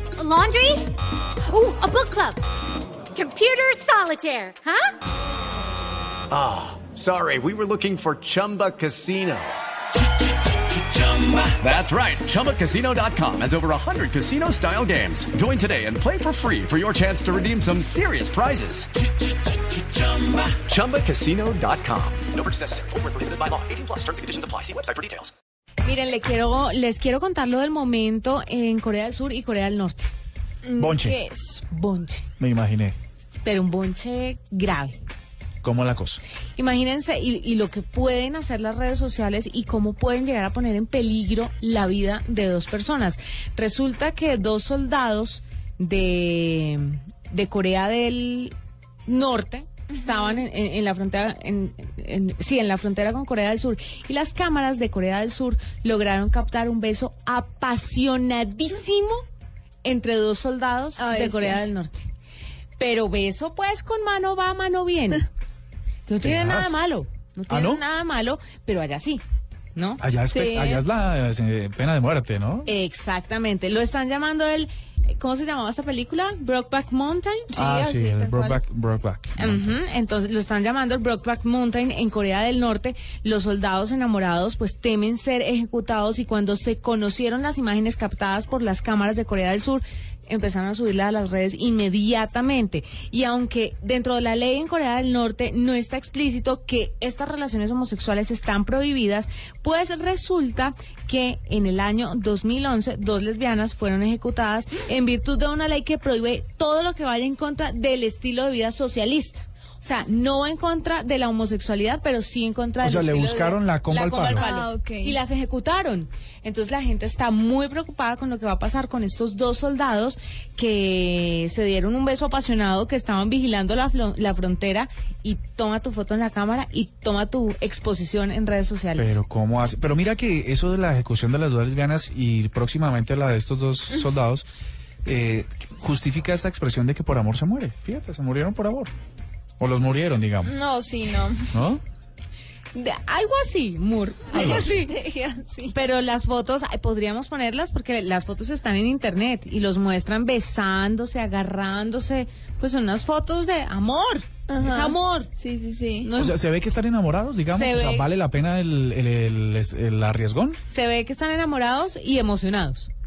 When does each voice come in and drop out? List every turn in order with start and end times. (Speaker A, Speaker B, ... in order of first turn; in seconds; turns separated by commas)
Speaker A: 0.2-0.9, Speaker A: 1.5-2.4, Speaker A: 3.1-4.9, Speaker B: 6.3-9.5, Speaker B: 10.9-18.9, Speaker B: 20.0-25.3, Speaker C: 25.8-30.1, Speaker C: 30.7-32.3, Speaker D: 30.8-31.2, Speaker D: 32.4-33.0, Speaker C: 33.4-35.0, Speaker D: 35.6-36.2, Speaker C: 36.6-48.5, Speaker C: 49.0-59.2, Speaker C: 59.8-62.1, Speaker E: 61.0-61.6, Speaker C: 62.8-65.3, Speaker C: 66.0-69.2, Speaker D: 66.2-66.8, Speaker D: 67.5-67.8, Speaker C: 69.7-70.0, Speaker D: 70.0-72.7, Speaker E: 70.3-70.8, Speaker C: 72.7-77.5, Speaker E: 77.5-78.6, Speaker D: 77.5-79.7, Speaker C: 79.4-129.1, Speaker D: 112.8-114.4, Speaker E: 114.3-115.2, Speaker D: 128.9-134.5, Speaker D: 135.0-138.9, Speaker D: 139.6-140.5, Speaker E: 140.4-141.5, Speaker D: 141.5-141.8, Speaker C: 142.7-145.0, Speaker D: 144.3-144.7, Speaker E: 144.3-145.7, Speaker C: 145.7-155.3, Speaker E: 154.5-156.1, Speaker C: 156.0-156.4, Speaker D: 156.1-160.6, Speaker C: 157.4-158.1, Speaker C: 160.7-162.9